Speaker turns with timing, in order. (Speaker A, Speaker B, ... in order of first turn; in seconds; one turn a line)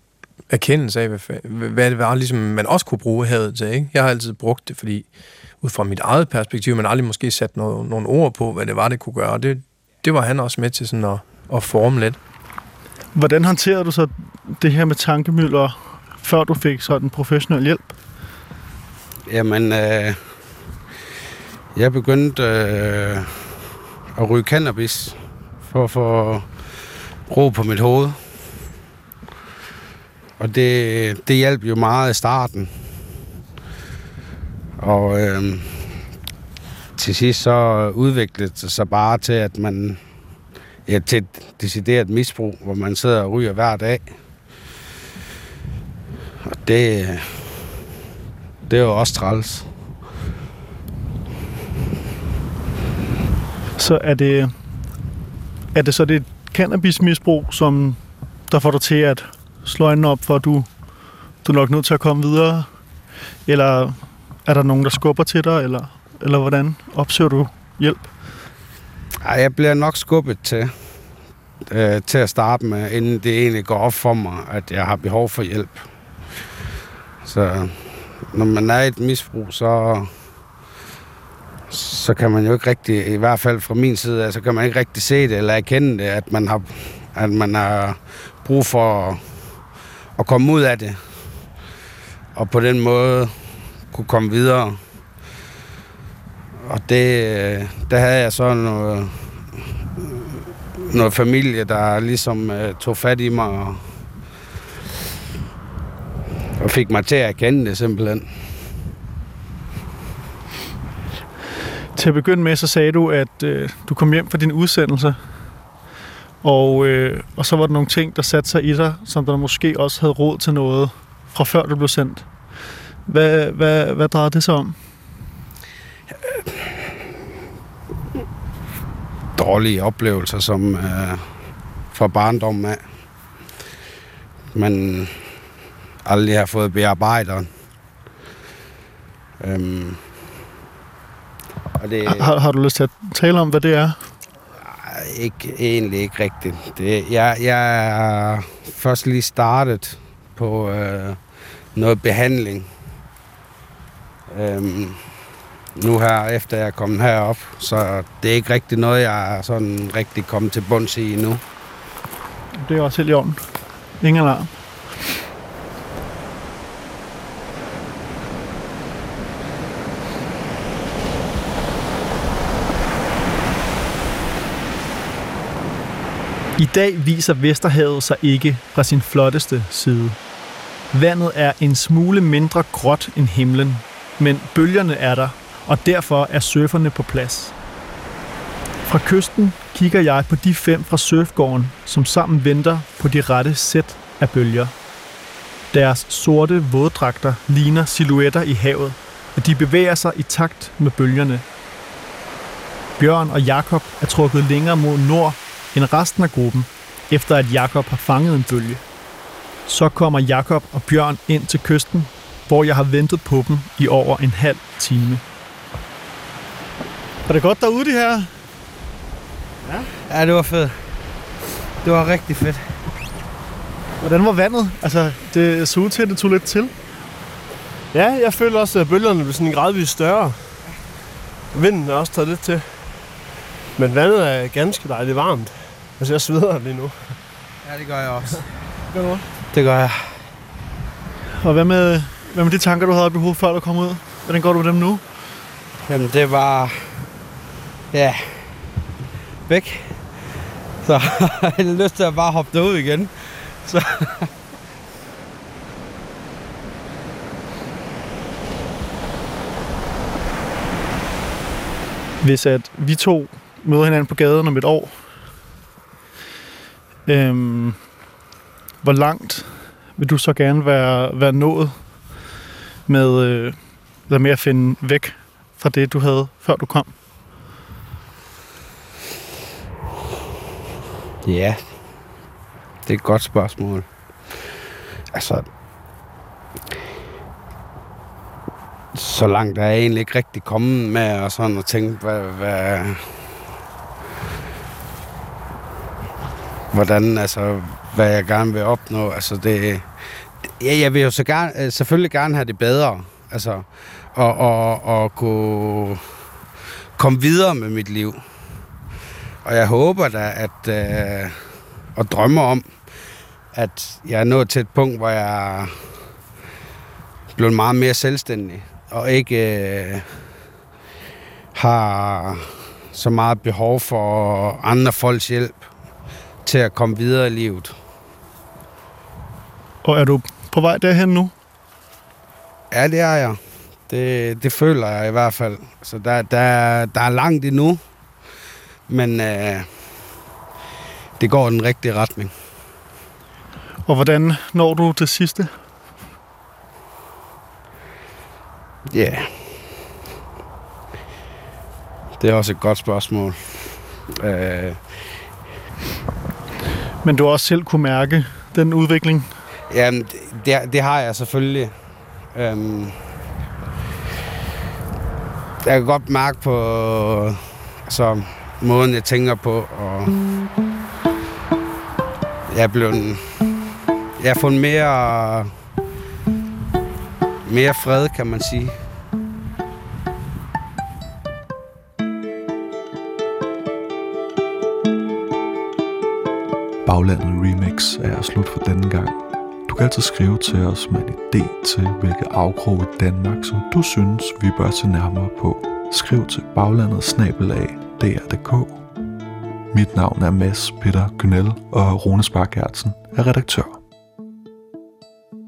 Speaker A: 0.5-12.2
Speaker B: 13.2-18.0
Speaker C: 19.3-20.4
Speaker C: 21.8-23.5
Speaker C: 24.2-26.7
Speaker C: 27.3-28.2
Speaker C: 30.4-33.0
Speaker C: 34.8-36.0
Speaker C: 37.0-40.0
Speaker C: 40.9-44.2
Speaker C: 46.5-47.5
Speaker C: 48.7-49.7
Speaker B: 53.8-54.5
Speaker B: 55.7-60.7
Speaker B: 61.4-62.7
Speaker B: 63.5-68.1
Speaker C: 69.2-71.0
Speaker C: 71.7-75.9
Speaker C: 77.2-80.2
Speaker C: 81.7-89.6
Speaker C: 90.2-91.3
Speaker C: 92.3-94.8
Speaker C: 96.7-100.2
Speaker C: 100.8-104.0
Speaker C: 106.6-108.5
Speaker B: 112.0-115.3
Speaker B: 116.4-122.3
Speaker B: 123.1-124.8
Speaker C: 129.4-131.3
Speaker C: 131.9-132.8
Speaker C: 134.5-135.3
Speaker C: 136.1-137.5
Speaker C: 139.4-140.1
Speaker C: 141.8-142.3
Speaker B: 142.1-144.0
Speaker C: 144.6-151.2
Speaker C: 151.8-152.7
Speaker C: 154.3-155.1
Speaker C: 155.8-161.4
Speaker B: 162.6-164.5
Speaker B: 176.6-180.2
Speaker B: 180.9-187.5
Speaker B: 188.8-194.7
Speaker B: 195.7-201.4
Speaker B: 203.0-208.8
Speaker B: 209.7-215.2
Speaker B: 217.3-218.3
Speaker C: 220.1-221.0
Speaker C: 221.8-222.8
Speaker B: 224.0-226.7
Speaker D: 227.9-230.6
Speaker D: 231.5-233.1
Speaker D: 233.8-237.2
Speaker C: 237.7-238.5
Speaker C: 239.5-240.3
Speaker B: 241.4-245.0
Speaker C: 245.8-247.0
Speaker C: 247.9-248.7
Speaker C: 249.5-250.2
Speaker C: 250.8-254.3
Speaker B: 262.2-265.2
Speaker B: 267.1-268.0
Speaker B: 268.8-272.3
Speaker B: 272.9-277.0
Speaker C: 281.2-282.0
Speaker C: 282.9-284.4
Speaker C: 285.1-285.5
Speaker C: 288.9-293.3
Speaker C: 296.7-306.1
Speaker C: 307.0-308.2
Speaker C: 309.4-312.8
Speaker C: 313.5-315.9
Speaker C: 317.4-320.1
Speaker C: 321.6-325.7
Speaker C: 326.4-327.8
Speaker B: 329.8-331.3
Speaker C: 332.7-337.8
Speaker C: 338.9-340.0
Speaker C: 341.2-342.3
Speaker B: 343.9-345.5
Speaker C: 348.9-349.8
Speaker C: 352.2-355.3
Speaker B: 357.0-359.3
Speaker C: 359.7-361.7
Speaker C: 362.3-363.0
Speaker C: 365.6-370.2
Speaker C: 372.5-373.4
Speaker C: 374.2-375.5
Speaker C: 377.5-378.8
Speaker E: 386.9-398.8
Speaker E: 399.7-403.8